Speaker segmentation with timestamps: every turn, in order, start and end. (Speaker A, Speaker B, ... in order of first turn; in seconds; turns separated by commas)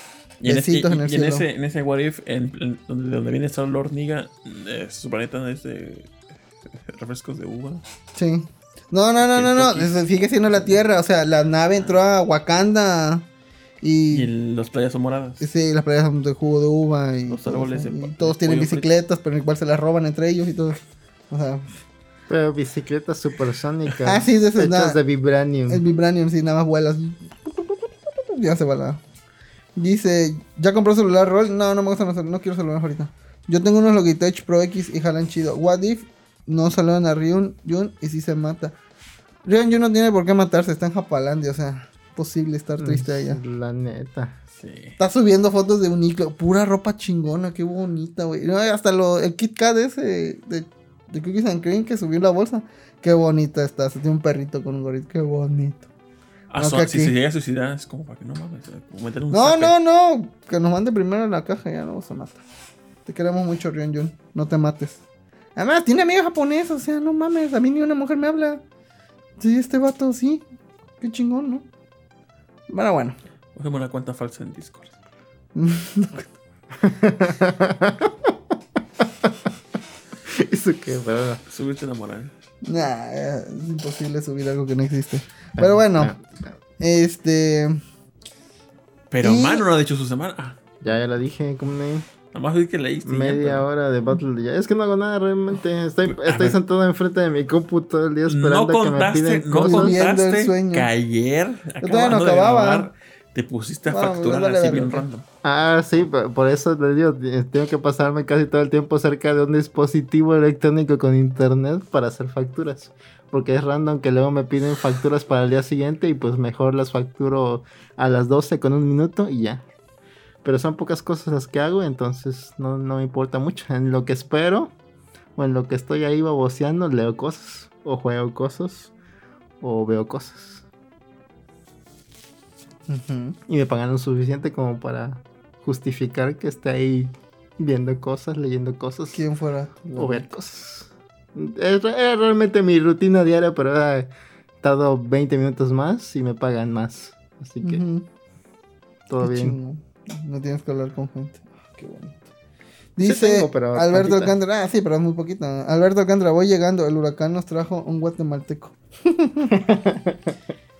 Speaker A: 0.4-6.1, Speaker B: 0.5-1.4, Speaker A: 6.7-7.8, Speaker B: 8.1-13.3, Speaker A: 9.2-10.0, Speaker A: 10.5-10.8, Speaker B: 13.8-14.3, Speaker A: 14.1-15.4, Speaker B: 15.4-20.8, Speaker A: 17.3-18.9, Speaker B: 21.3-21.7, Speaker C: 22.3-25.8, Speaker B: 24.1-25.0, Speaker B: 25.7-29.0, Speaker B: 29.8-38.7, Speaker B: 39.5-43.4, Speaker C: 42.8-44.4, Speaker A: 44.6-45.0, Speaker B: 45.0-55.9, Speaker A: 56.5-59.7, Speaker B: 56.6-57.1, Speaker B: 59.3-62.4, Speaker B: 63.0-65.0, Speaker B: 65.5-68.6, Speaker B: 69.4-70.4, Speaker B: 71.0-71.6, Speaker B: 72.7-73.2, Speaker A: 73.5-75.0, Speaker B: 75.5-76.3, Speaker C: 76.8-78.3, Speaker C: 80.3-81.4, Speaker A: 81.5-82.3, Speaker B: 82.6-86.1, Speaker C: 85.6-86.5, Speaker B: 86.8-87.8, Speaker A: 89.1-90.6, Speaker B: 89.2-89.6, Speaker C: 90.8-92.1, Speaker A: 92.3-93.7, Speaker C: 93.0-100.0, Speaker A: 96.0-96.6, Speaker A: 98.3-105.2, Speaker B: 99.6-100.9, Speaker B: 101.8-102.9, Speaker B: 103.9-105.0, Speaker C: 105.4-119.7, Speaker C: 120.4-124.7, Speaker C: 125.4-128.9, Speaker C: 129.6-130.6, Speaker B: 132.9-133.4, Speaker C: 133.5-139.2, Speaker B: 139.1-140.3, Speaker C: 139.9-147.8, Speaker B: 147.6-148.1, Speaker C: 149.1-149.6, Speaker B: 149.2-152.2, Speaker B: 152.9-159.5, Speaker C: 153.0-154.4, Speaker C: 159.5-160.3